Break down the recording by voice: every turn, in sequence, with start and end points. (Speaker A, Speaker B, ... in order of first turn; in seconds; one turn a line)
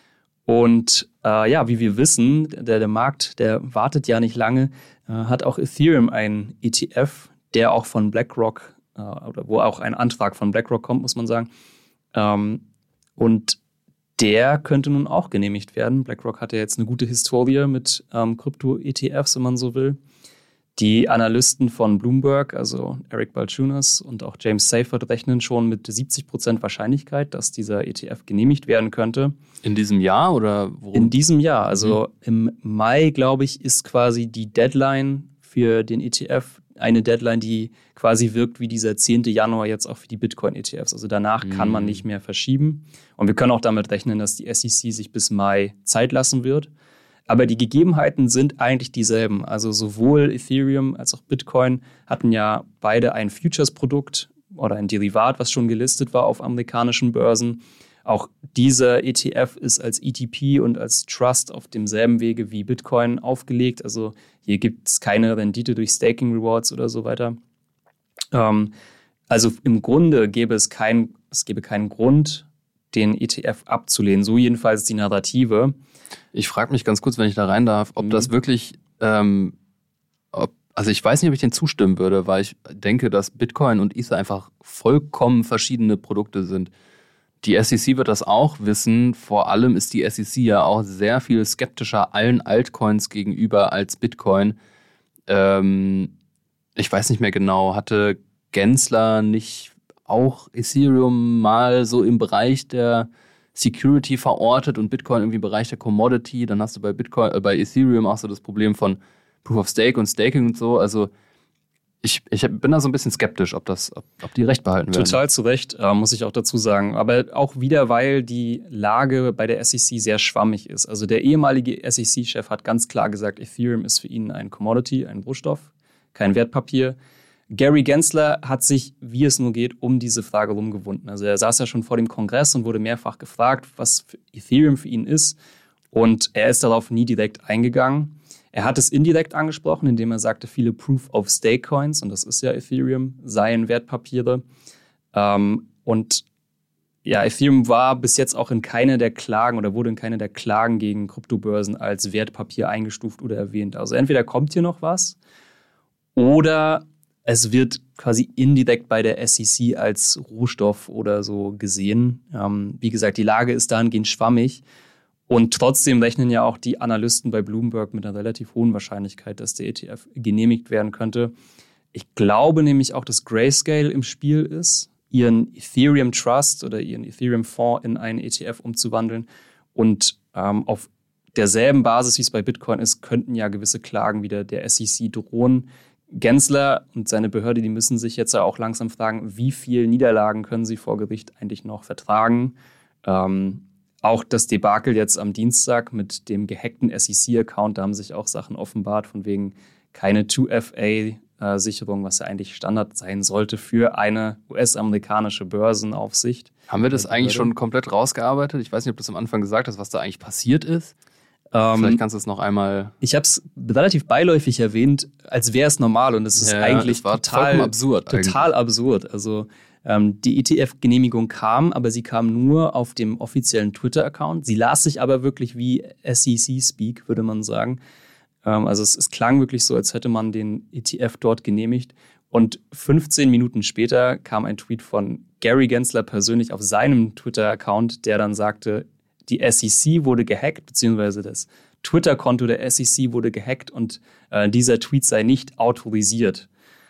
Speaker A: 0.5-11.5
Speaker A: 12.1-12.6
Speaker A: 13.2-13.6
Speaker A: 14.2-20.0
Speaker A: 20.8-29.3
Speaker B: 29.6-31.1
Speaker A: 30.9-46.7
Speaker B: 31.7-32.0
Speaker B: 41.4-42.0
Speaker A: 47.3-67.4
Speaker A: 68.3-68.7
Speaker A: 69.3-75.7
Speaker B: 76.3-79.5
Speaker B: 80.3-86.7
Speaker B: 87.4-94.5
Speaker B: 95.3-96.1
Speaker B: 96.8-111.1
Speaker B: 112.0-115.2
Speaker A: 114.9-127.0
Speaker A: 127.5-135.3
Speaker A: 135.9-144.4
Speaker A: 145.1-146.2
Speaker A: 147.0-155.2
Speaker A: 156.2-164.6
Speaker A: 165.3-171.3
Speaker A: 171.9-192.5
Speaker A: 193.0-207.5
Speaker B: 206.7-210.9
Speaker A: 211.5-212.0
Speaker B: 211.7-212.9
Speaker A: 213.0-227.8
Speaker B: 216.4-218.4
Speaker A: 228.4-246.5